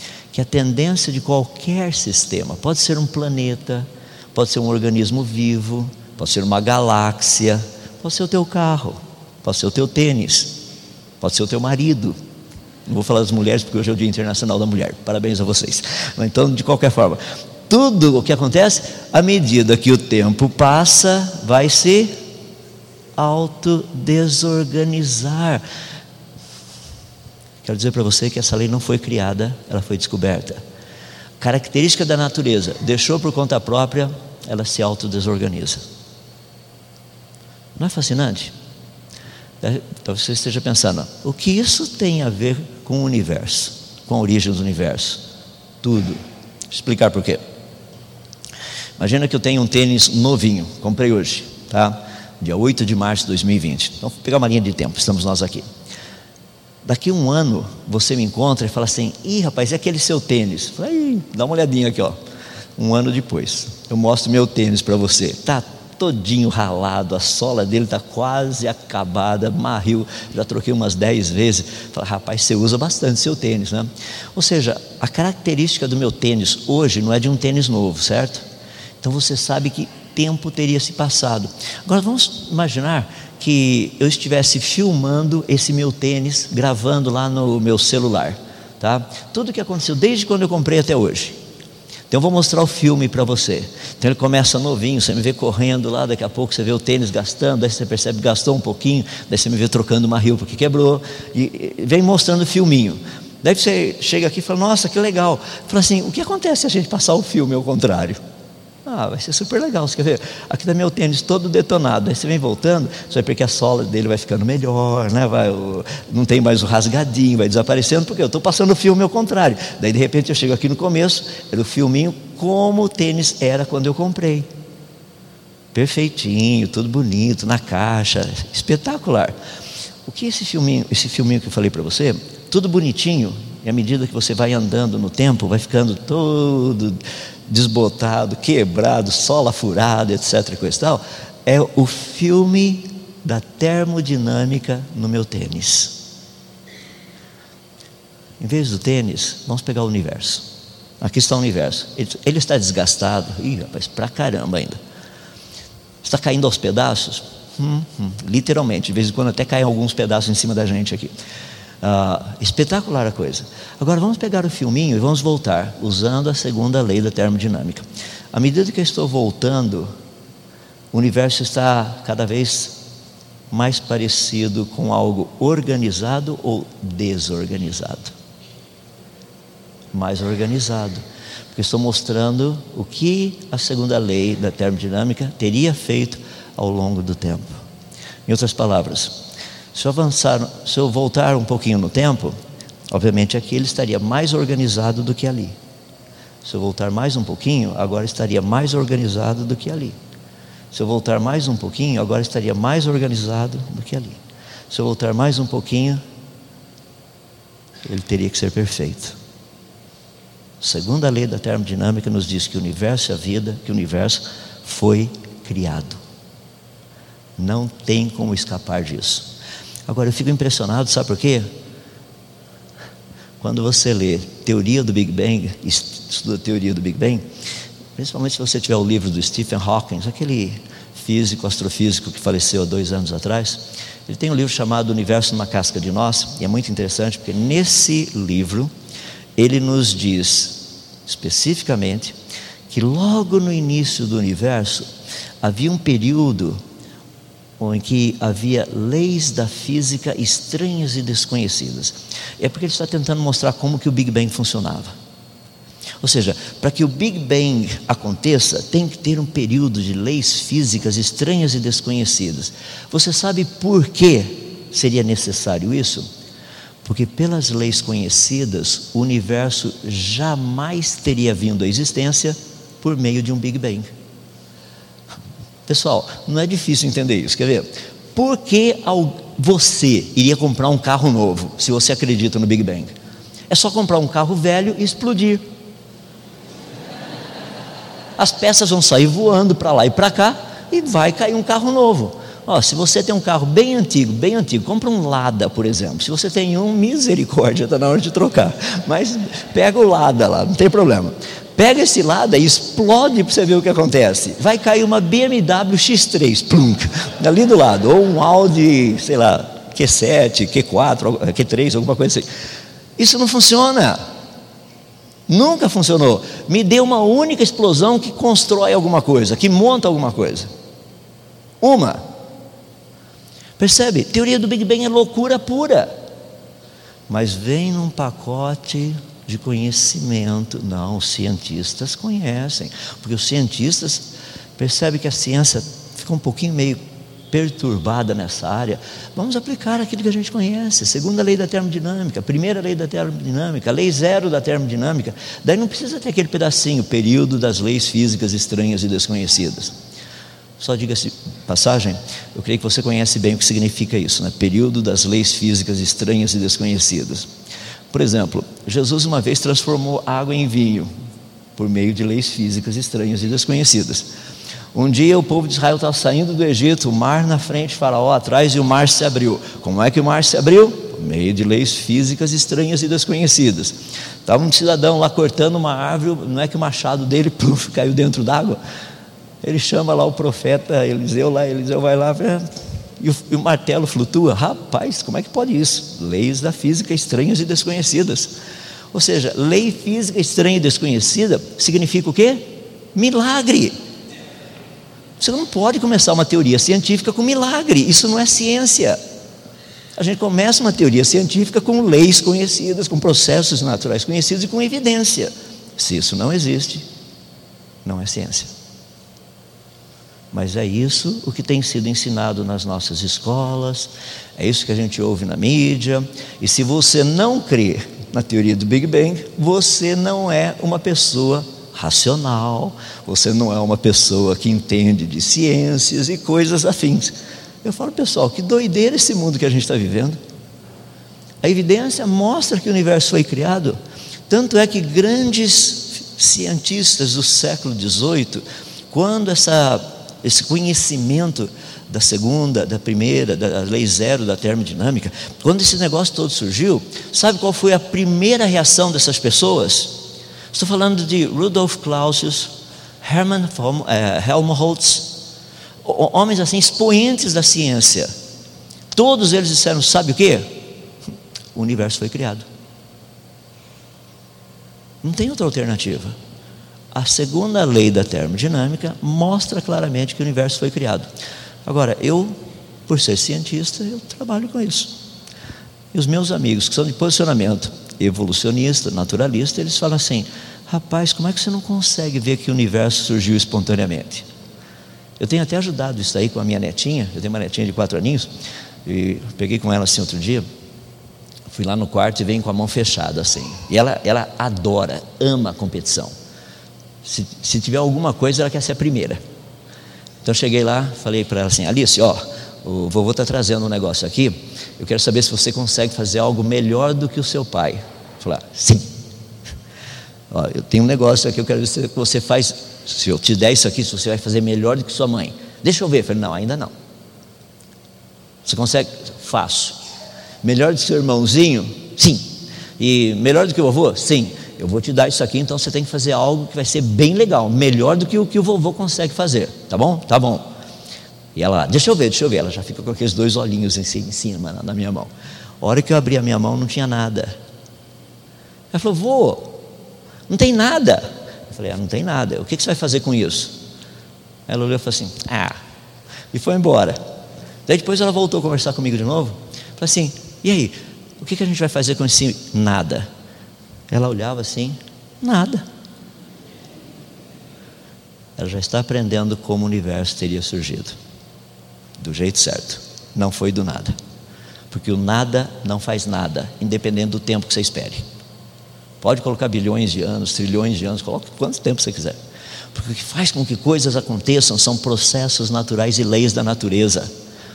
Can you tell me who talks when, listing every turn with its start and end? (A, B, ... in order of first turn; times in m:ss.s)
0:00.3-0:10.6 A
0:11.2-0:12.2 A
0:12.9-0:22.1 A
0:23.2-0:25.6 A
0:27.6-0:30.6 A
0:31.4-0:35.8 A
0:37.8-0:38.5 A
0:39.6-0:45.2 A
0:45.8-0:47.4 A
0:49.0-0:55.6 A
0:56.8-1:02.2 A
1:02.8-1:18.4 A
1:19.0-1:31.4 A
1:32.1-1:48.2 A
1:48.8-2:04.5 A
2:05.7-2:09.3 A
2:10.0-2:26.0 A
2:28.4-2:30.4 A
2:31.0-2:34.8 A
2:36.0-2:41.1 A
2:41.8-2:49.9 A
2:50.9-2:52.8 A
2:53.5-2:58.1 A
2:59.9-3:01.0 A
3:01.5-3:07.6 A
3:08.2-3:12.3 A
3:12.9-3:15.6 A
3:16.4-3:20.0 A
3:20.7-3:26.0 A
3:27.8-3:29.2 A
3:30.6-3:36.0 A
3:37.4-3:39.3 A
3:39.9-3:41.5 A
3:43.4-3:47.2 A
3:48.0-3:58.7 A
3:59.4-4:02.1 A
4:02.7-4:04.9 A
4:05.4-4:06.6 A
4:07.6-4:14.9 A
4:16.0-4:26.0 A
4:26.8-4:33.9 A
4:35.7-4:42.9 A
4:43.5-4:45.4 A
4:48.2-5:12.3 A
5:13.0-5:14.0 A
5:15.3-5:20.5 A
5:21.6-5:22.0 A
5:23.6-5:25.9 A
5:27.1-5:49.7 A
5:50.6-5:57.3 A
5:57.9-6:00.9 A
6:01.6-6:04.1 A
6:04.7-6:18.6 A
6:19.4-6:22.4 A
6:23.0-6:28.3 A
6:28.9-6:33.7 A
6:35.2-6:39.0 A
6:40.0-6:46.8 A
6:47.8-6:48.5 A
6:50.3-7:10.2 A
7:11.4-7:13.8 A
7:14.3-7:35.2 A
7:35.8-7:38.1 A
7:38.9-7:40.6 A
7:41.5-7:42.4 A
7:45.0-7:46.1 A
7:46.9-7:51.1 A
7:51.6-7:52.4 A
7:52.9-7:55.0 A
7:55.9-8:04.2 A
8:05.2-8:08.3 A
8:08.8-8:10.4 A
8:11.5-8:16.1 A
8:17.0-8:19.2 A
8:20.2-8:28.9 A
8:30.3-8:36.7 A
8:38.4-8:39.8 A
8:40.4-8:50.4 A
8:51.3-8:57.3 A
8:58.7-8:59.6 A
9:00.3-9:03.5 A
9:04.5-9:05.6 A
9:06.3-9:07.0 A
9:07.7-9:13.1 A
9:13.9-9:15.6 A
9:18.4-9:21.0 A
9:22.0-9:23.9 A
9:24.7-9:28.0 A
9:29.0-9:32.2 A
9:32.7-9:37.1 A